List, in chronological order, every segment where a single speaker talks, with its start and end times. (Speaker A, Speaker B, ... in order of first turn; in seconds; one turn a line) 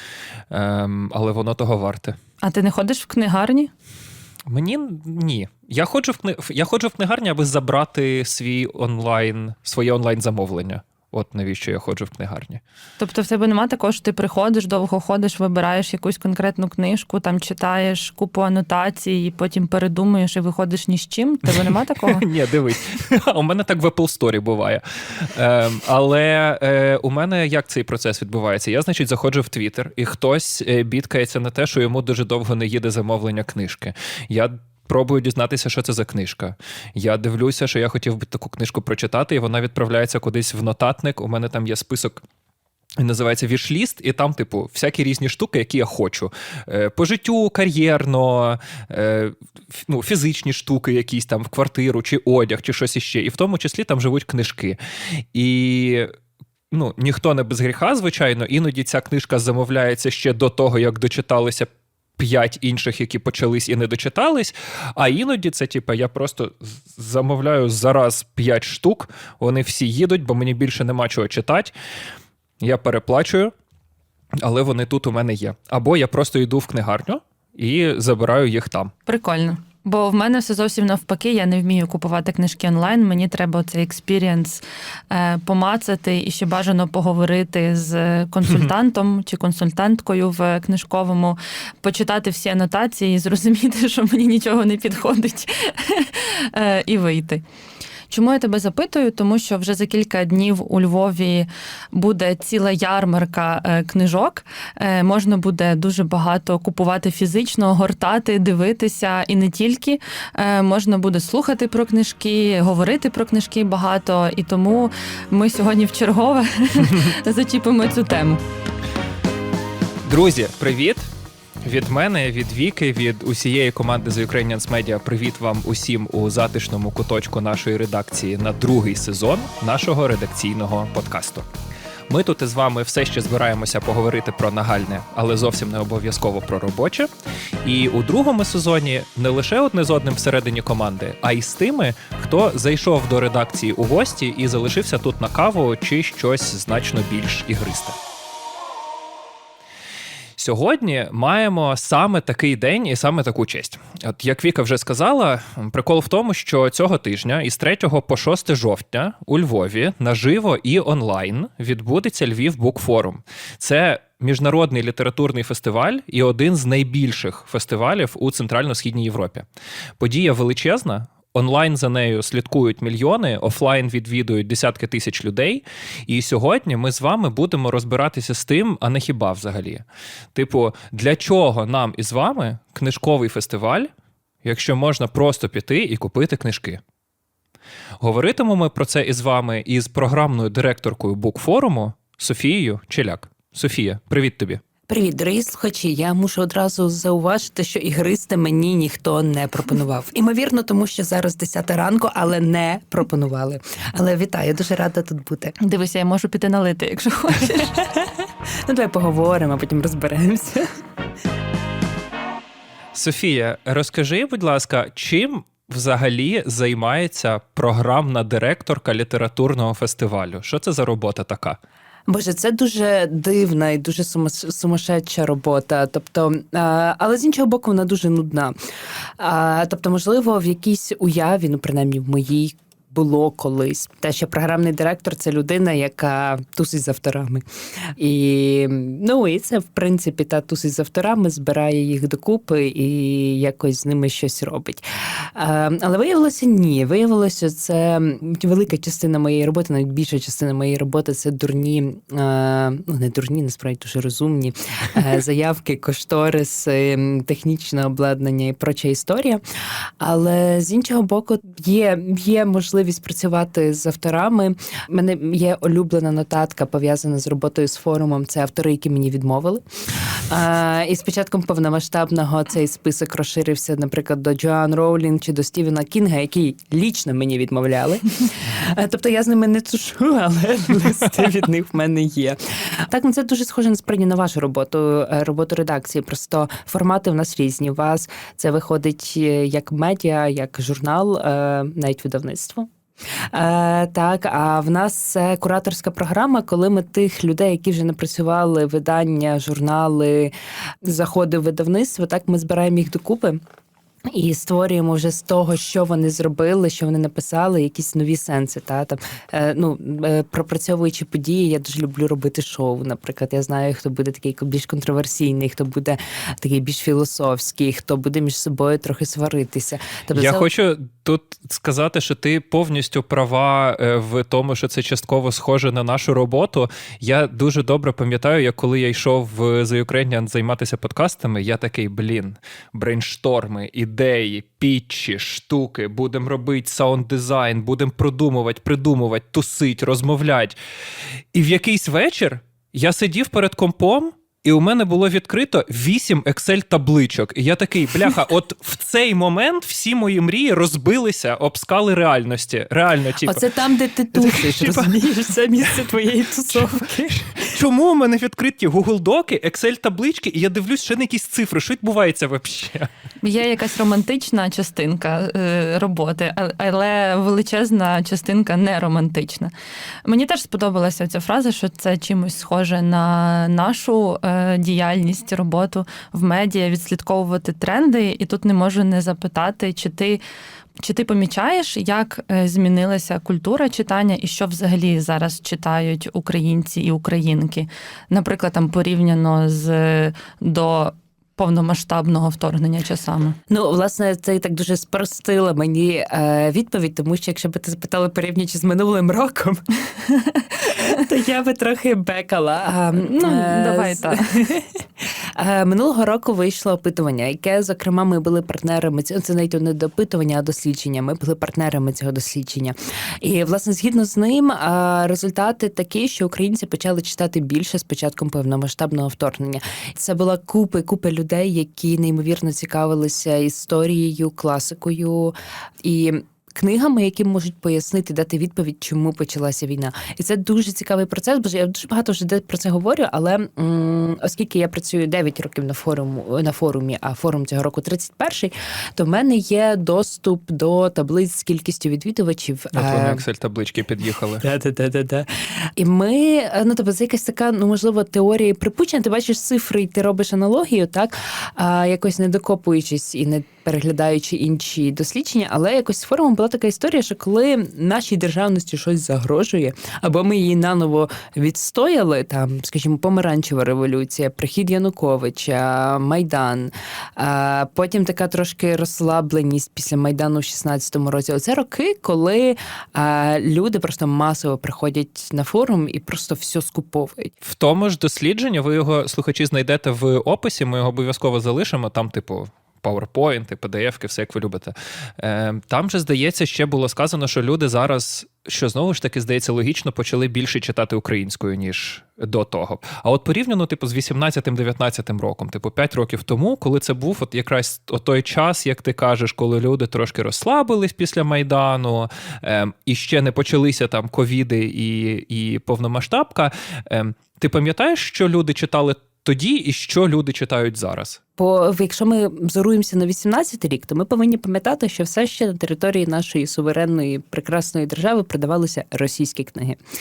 Speaker A: 0.5-2.2
Speaker B: 2.4-3.7
Speaker A: 4.5-12.6
Speaker B: 13.0-22.3
Speaker A: 21.5-42.2
Speaker A: 43.0-54.8
Speaker A: 55.3-56.1
Speaker A: 56.7-71.7
Speaker A: 72.6-73.5
Speaker A: 74.4-78.9
Speaker B: 79.1-97.4
Speaker B: 98.1-118.4
Speaker A: 120.1-121.1
Speaker A: 121.6-131.5
Speaker A: 132.1-137.1
Speaker A: 137.6-148.0
Speaker A: 150.4-169.5
Speaker A: 170.0-183.9
Speaker A: 184.4-186.8
Speaker A: 188.0-194.6
Speaker C: 194.9-205.6
Speaker B: 205.6-207.8
Speaker C: 207.8-210.7
Speaker A: 212.9-221.6
Speaker C: 222.1-228.5
Speaker C: 229.2-259.4
Speaker C: 260.0-292.7
Speaker C: 293.3-303.4
Speaker C: 304.1-320.5
Speaker A: 320.1-340.6
Speaker A: 341.3-353.4
Speaker C: 353.2-357.5
Speaker A: 354.1-355.0
Speaker A: 356.5-362.9
Speaker B: 363.2-369.5
Speaker B: 370.1-380.2
Speaker B: 380.8-393.4
Speaker C: 393.5-399.7
Speaker B: 400.1-400.5
Speaker C: 400.5-443.2
Speaker B: 403.0-404.4
Speaker A: 442.7-444.4
Speaker C: 444.4-477.3
Speaker A: 477.4-511.2
Speaker C: 511.4-519.8